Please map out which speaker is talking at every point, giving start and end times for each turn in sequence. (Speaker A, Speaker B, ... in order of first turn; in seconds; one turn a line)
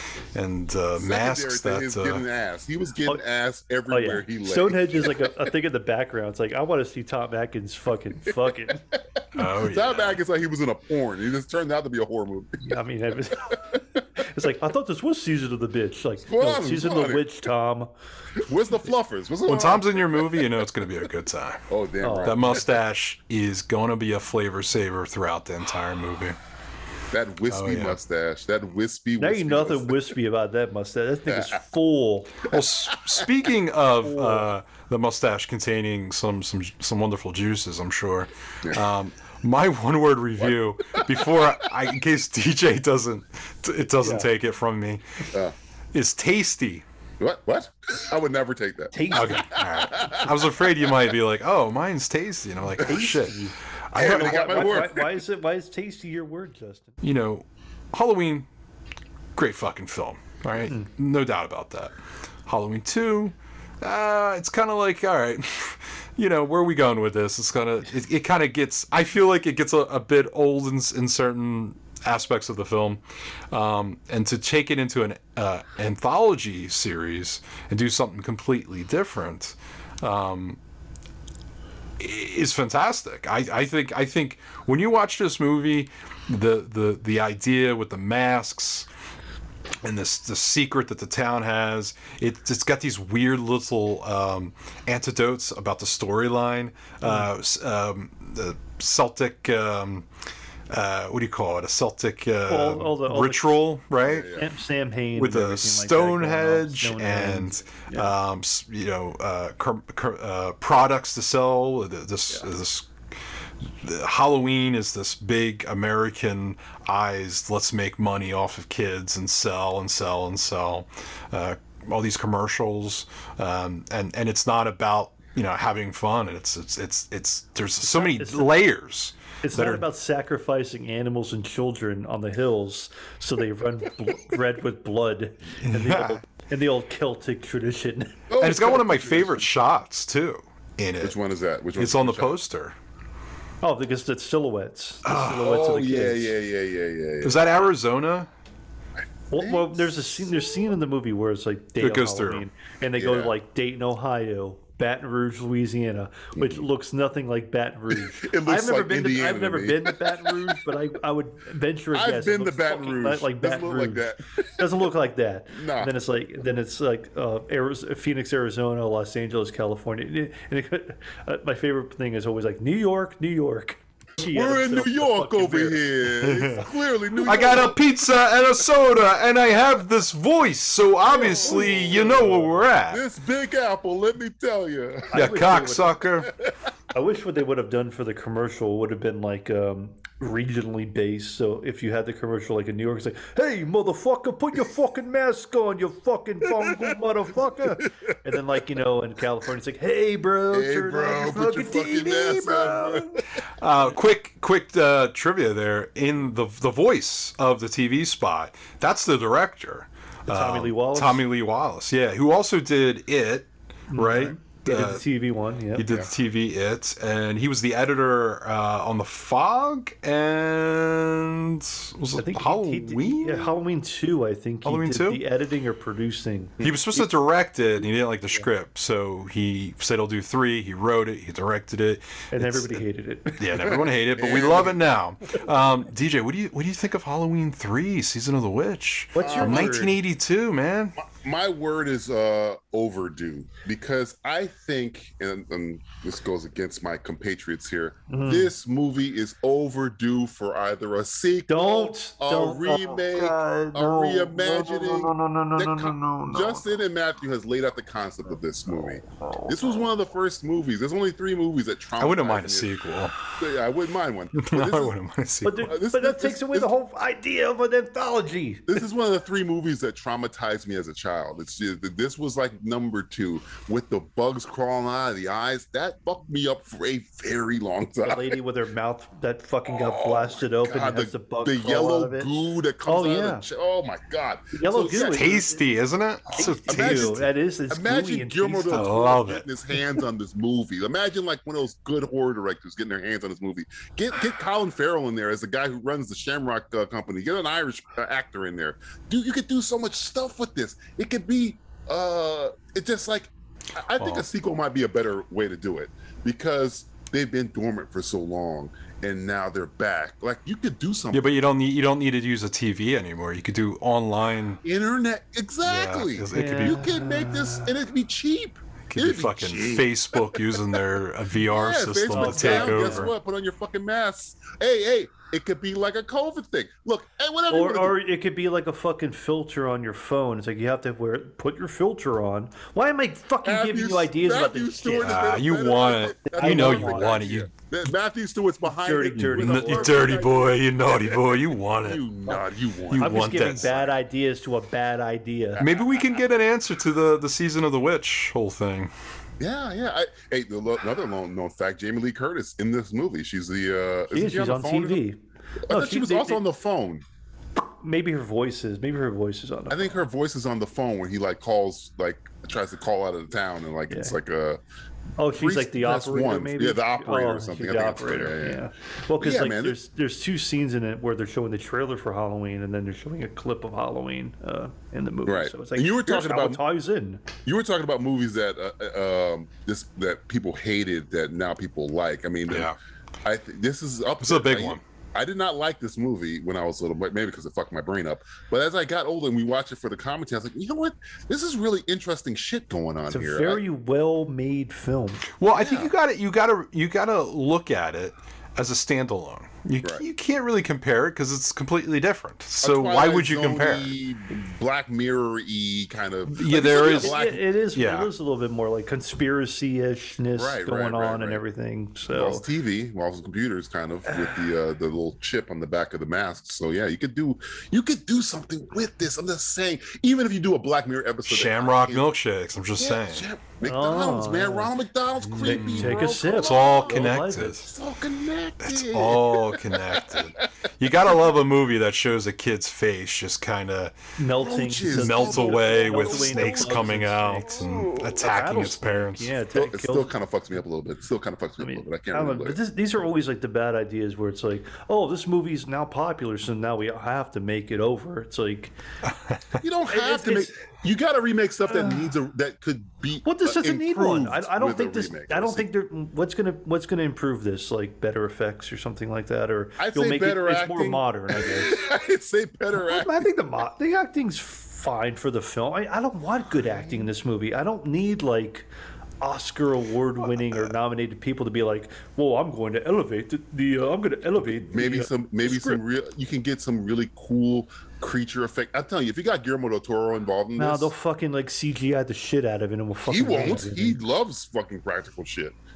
Speaker A: 0.3-2.3
Speaker B: 1.0-5.3
Speaker C: 3.9-8.8
Speaker A: 9.3-10.2
Speaker B: 9.4-12.8
Speaker C: 12.6-17.9
Speaker B: 16.3-17.3
Speaker B: 18.4-20.5
Speaker A: 19.5-21.7
Speaker B: 21.7-22.7
Speaker C: 22.0-22.4
Speaker A: 22.2-26.4
Speaker B: 27.1-30.0
Speaker A: 27.5-28.0
Speaker C: 29.2-32.5
Speaker B: 31.3-31.6
Speaker A: 32.5-45.0
Speaker C: 34.0-34.5
Speaker C: 44.0-44.3
Speaker A: 45.9-46.9
Speaker B: 47.2-50.6
Speaker C: 48.9-49.5
Speaker A: 49.1-54.8
Speaker C: 52.8-57.0
Speaker B: 52.9-53.2
Speaker B: 53.9-55.2
Speaker A: 57.0-58.5
Speaker A: 59.4-61.9
Speaker A: 62.5-80.6
Speaker A: 82.0-88.9
Speaker A: 89.8-100.1
Speaker C: 97.0-97.3
Speaker A: 100.7-104.3
Speaker C: 102.5-103.7
Speaker B: 104.0-104.5
Speaker C: 104.3-108.2
Speaker A: 105.2-112.9
Speaker A: 113.8-129.8
Speaker C: 127.8-128.6
Speaker C: 129.4-138.2
Speaker A: 135.6-136.2
Speaker B: 138.3-139.5
Speaker A: 138.4-141.2
Speaker B: 141.0-142.4
Speaker A: 141.8-142.8
Speaker C: 143.6-146.4
Speaker A: 145.0-145.4
Speaker B: 145.2-147.4
Speaker A: 147.2-148.3
Speaker B: 149.0-149.9
Speaker C: 149.3-175.8
Speaker A: 151.8-152.5
Speaker B: 153.0-153.3
Speaker B: 156.4-156.7
Speaker B: 157.9-160.6
Speaker B: 161.9-164.9
Speaker B: 165.5-165.9
Speaker B: 174.3-177.8
Speaker A: 176.2-176.7
Speaker A: 177.2-183.0
Speaker B: 181.1-185.6
Speaker C: 181.1-182.7
Speaker C: 185.1-186.0
Speaker A: 185.2-186.3
Speaker B: 186.2-186.5
Speaker C: 186.9-203.2
Speaker B: 196.6-196.9
Speaker B: 200.5-203.2
Speaker A: 203.6-215.0
Speaker C: 210.3-211.2
Speaker C: 213.9-215.9
Speaker A: 215.8-223.6
Speaker B: 215.9-216.1
Speaker C: 222.2-226.6
Speaker A: 224.7-225.2
Speaker B: 226.6-227.1
Speaker A: 226.6-232.8
Speaker C: 232.3-233.4
Speaker A: 233.4-241.0
Speaker B: 233.6-234.8
Speaker C: 239.1-240.0
Speaker B: 239.2-239.9
Speaker B: 241.0-262.7
Speaker C: 248.1-248.5
Speaker C: 251.5-256.6
Speaker C: 258.7-259.9
Speaker A: 262.0-263.2
Speaker B: 263.3-264.9
Speaker A: 264.4-265.7
Speaker C: 265.4-268.8
Speaker B: 265.7-266.7
Speaker B: 268.7-278.4
Speaker C: 278.0-283.5
Speaker B: 279.7-285.4
Speaker C: 284.5-285.6
Speaker A: 285.0-287.2
Speaker C: 286.3-289.1
Speaker B: 286.4-311.3
Speaker A: 288.7-289.4
Speaker C: 289.8-290.0
Speaker A: 304.0-304.2
Speaker A: 311.1-314.6
Speaker B: 314.6-320.5
Speaker A: 315.6-317.0
Speaker C: 316.3-317.8
Speaker A: 318.9-323.1
Speaker B: 321.4-328.0
Speaker C: 322.1-323.1
Speaker C: 327.5-335.3
Speaker B: 333.4-343.9
Speaker A: 335.0-337.5
Speaker C: 336.3-337.2
Speaker C: 338.7-340.2
Speaker A: 339.2-342.0
Speaker A: 342.9-343.8
Speaker C: 343.0-345.6
Speaker B: 345.6-346.2
Speaker A: 345.6-348.9
Speaker B: 349.4-355.0
Speaker C: 354.1-356.4
Speaker B: 355.7-357.0
Speaker C: 357.8-360.1
Speaker B: 359.7-364.6
Speaker C: 363.9-364.2
Speaker C: 365.2-377.3
Speaker B: 365.3-368.6
Speaker B: 369.2-369.8
Speaker B: 375.3-376.6
Speaker B: 377.4-393.6
Speaker A: 382.5-382.8
Speaker A: 384.2-384.8
Speaker C: 393.1-395.3
Speaker A: 395.4-404.0
Speaker B: 395.5-395.9
Speaker B: 402.6-407.4
Speaker A: 406.3-407.2
Speaker C: 406.6-412.5
Speaker A: 407.8-408.1
Speaker B: 410.3-411.4
Speaker B: 412.1-422.1
Speaker A: 421.3-423.3
Speaker B: 422.8-430.4
Speaker C: 423.6-424.7
Speaker A: 425.2-427.7
Speaker C: 425.3-427.7
Speaker A: 428.6-434.0
Speaker C: 434.2-437.7
Speaker B: 434.4-438.3
Speaker A: 434.9-439.3
Speaker C: 438.2-440.2
Speaker B: 439.5-442.6
Speaker C: 441.6-448.8
Speaker B: 449.6-455.7
Speaker C: 449.9-450.7
Speaker C: 451.7-452.1
Speaker C: 453.2-461.7
Speaker B: 459.8-463.2
Speaker C: 462.8-468.7
Speaker C: 469.2-475.8
Speaker A: 470.3-470.7
Speaker B: 474.5-480.9
Speaker C: 480.6-484.0
Speaker B: 483.1-485.6